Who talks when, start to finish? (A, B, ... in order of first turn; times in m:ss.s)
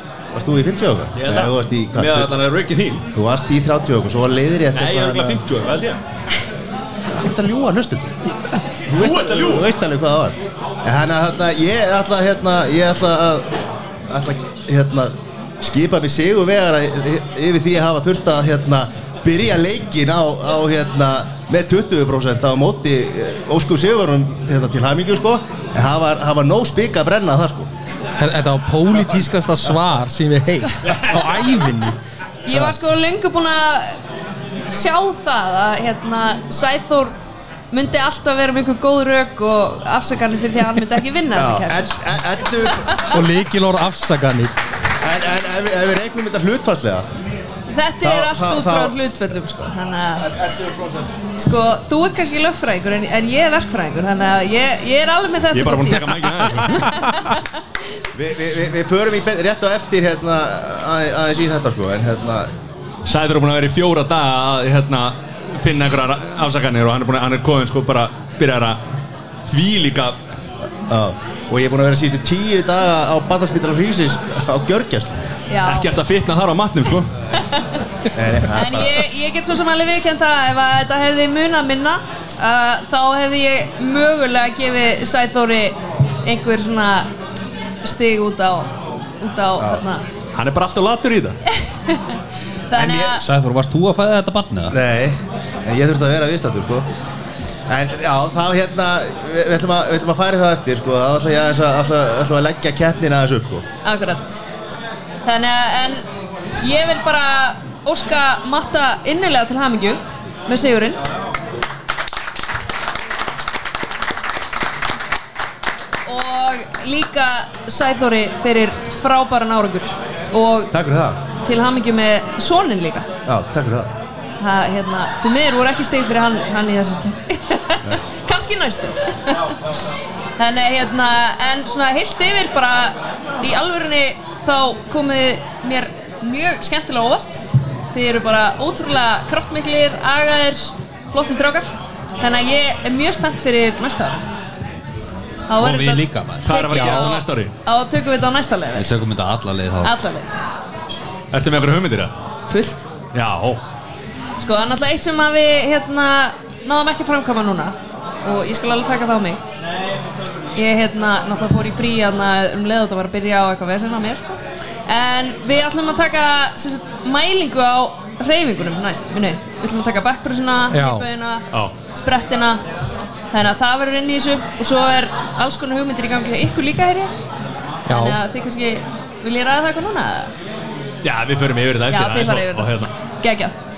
0:00.3-0:02.3 A
0:01.2-0:03.1 B
0:03.1-0:05.4 A
0:04.7-0:06.0 B
0:07.1-0:08.2 A
0:08.9-0:27.7 A
0:08.9-0:09.7 B
0:28.2-0:32.0 C
0:30.8-0:31.2 B
0:32.4-0:34.0 D
0:34.7-0:37.1 D
0:37.7-0:42.0 D
0:41.3-0:43.1 A
0:42.6-0:43.1 D
0:43.1-0:44.5 C
0:45.0-0:47.1 A
0:47.7-0:50.3 D
0:48.0-0:49.0 A
0:50.2-0:51.1 A
0:51.4-0:57.5 D
0:55.5-0:57.0 B
0:58.2-1:02.5 A
1:03.0-1:08.8 B
1:09.4-1:10.2 B
1:10.9-1:15.2 A
1:15.5-1:15.9 D
1:15.6-1:17.1 B
1:17.4-1:17.8 D
1:18.1-1:19.0 A
1:18.5-1:27.1 D
1:27.8-1:30.0 D
1:29.6-1:29.8 A
1:30.3-1:31.4 B
1:31.5-1:33.2 D
1:32.7-1:33.2 A
1:33.2-1:34.8 E
1:34.7-1:36.9 A
1:37.7-1:43.7 A
1:43.8-1:44.4 D
1:45.2-1:46.0 D
1:46.6-1:51.0 D
1:56.1-2:00.7 D
2:00.7-2:01.2 A
2:01.4-2:03.1 D
2:03.3-2:03.9 A
2:04.4-2:09.6 D
2:10.4-2:21.7 D
2:22.2-2:24.2 D
2:25.5-2:28.9 D
2:25.6-2:26.5 E
2:26.4-2:27.5 B
2:26.7-2:27.1 C
2:28.8-2:30.0 E
2:29.8-2:30.3 D
2:31.3-2:32.1 B
2:32.5-2:32.8 D
2:33.1-2:33.6 B
2:34.4-2:39.4 D
2:40.6-2:52.6 D
2:50.7-2:51.1 C
2:53.3-2:57.1 D
2:57.9-2:58.2 C
2:57.9-3:00.3 D
3:01.0-3:02.9 B
3:01.9-3:03.6 D